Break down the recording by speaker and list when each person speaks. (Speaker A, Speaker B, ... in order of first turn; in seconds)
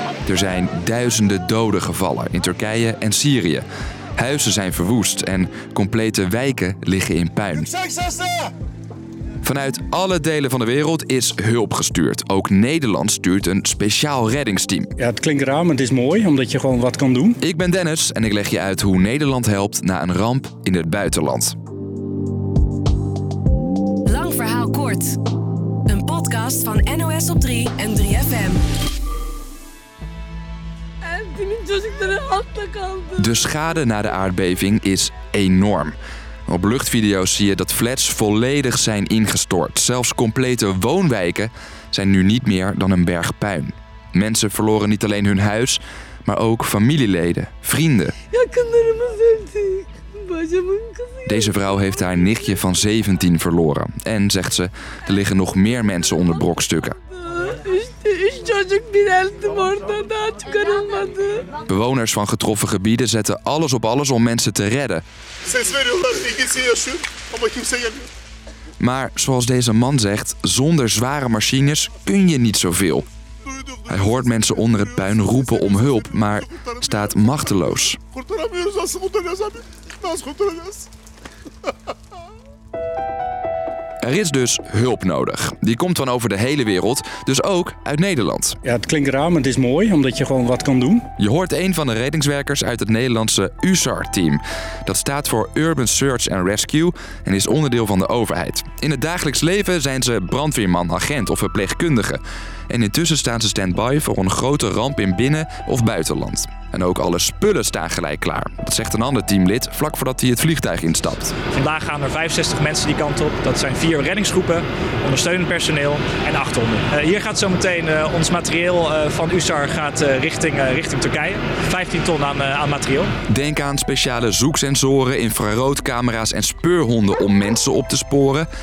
Speaker A: 0.2-3.6, 4.2-7.7, 9.4-14.9, 17.4-21.5, 33.2-36.0, 36.5-48.1, 51.2-57.0, 61.6-65.0, 68.8-73.1, 73.9-78.0, 84.0-88.6, 91.2-111.4, 123.3-128.5
Speaker B: 15.0-17.4, 88.7-91.0
Speaker C: 24.1-25.1, 25.9-28.6
Speaker D: 31.0-33.4, 48.3-52.1, 57.2-61.5
Speaker E: 111.5-123.1